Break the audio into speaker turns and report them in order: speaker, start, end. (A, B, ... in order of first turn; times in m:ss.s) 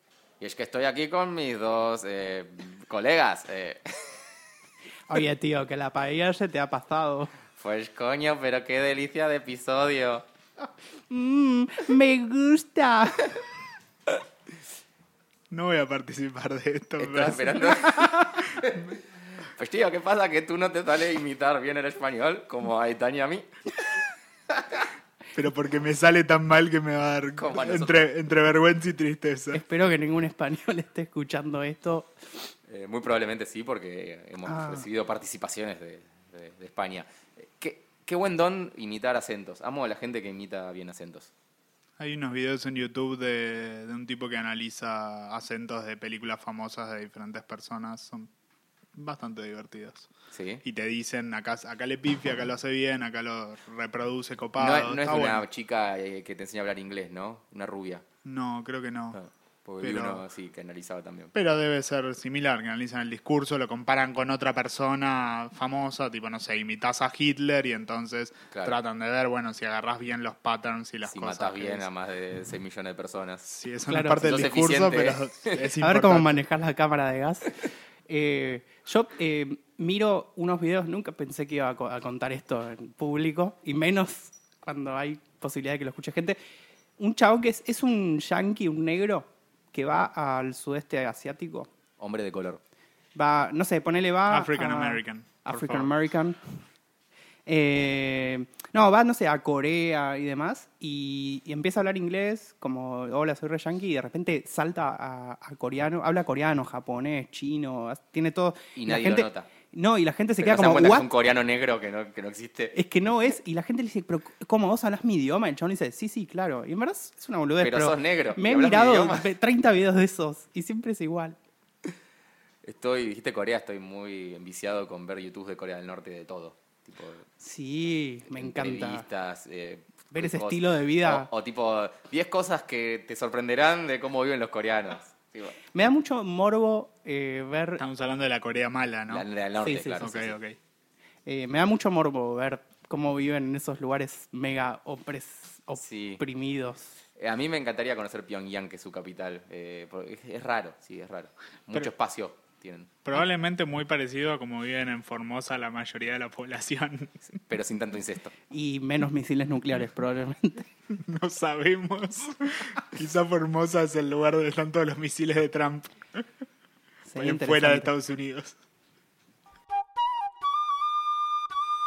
0:00.4-0:04.1 A
0:05.1-0:07.3 B
0:07.6-0:10.2 A
0:11.1-0:13.3 B
0:15.5-0:18.6 C
0:17.0-0:23.5 A
0:24.5-0:24.8 A
0:25.3-0:29.6 C
0:27.4-0:28.0 A
0:29.5-0:32.1 B
0:32.7-0:41.3 A
0:34.4-0:34.8 B
0:42.0-0:48.3 C
0:48.9-0:50.1 C
0:50.3-0:50.6 A
0:50.6-0:55.4 C
0:54.6-0:58.0 A
0:58.2-0:59.2 C
0:59.2-1:01.3 A
0:59.8-1:00.2 C
1:01.3-1:11.9 C
1:08.5-1:08.8 A
1:11.0-1:13.5 A
1:13.5-1:16.4 C
1:13.9-1:14.2 B
1:14.2-1:15.7 A
1:15.8-1:26.4 B
1:27.0-1:31.7 B
1:32.0-1:32.6 A
1:33.1-1:36.4 B
1:34.3-1:35.9 C
1:37.5-1:51.1 B
1:48.8-1:49.5 A
1:50.4-1:52.8 A
1:52.7-2:01.4 B
1:57.6-1:59.3 A
2:02.6-2:07.3 A
2:07.4-2:09.0 B
2:08.3-2:15.6 A
2:10.1-2:11.3 B
2:15.7-2:17.8 B
2:17.8-2:19.3 C
2:19.1-2:20.4 A
2:19.6-2:20.1 B
2:20.0-2:20.6 C
2:21.2-2:27.0 B
2:25.8-2:26.2 A
2:27.2-2:32.9 A
2:33.0-2:37.2 C
2:37.3-2:38.3 A
2:38.5-2:40.7 B
2:40.9-2:46.2 C
2:47.0-2:47.9 B
2:47.1-2:48.5 C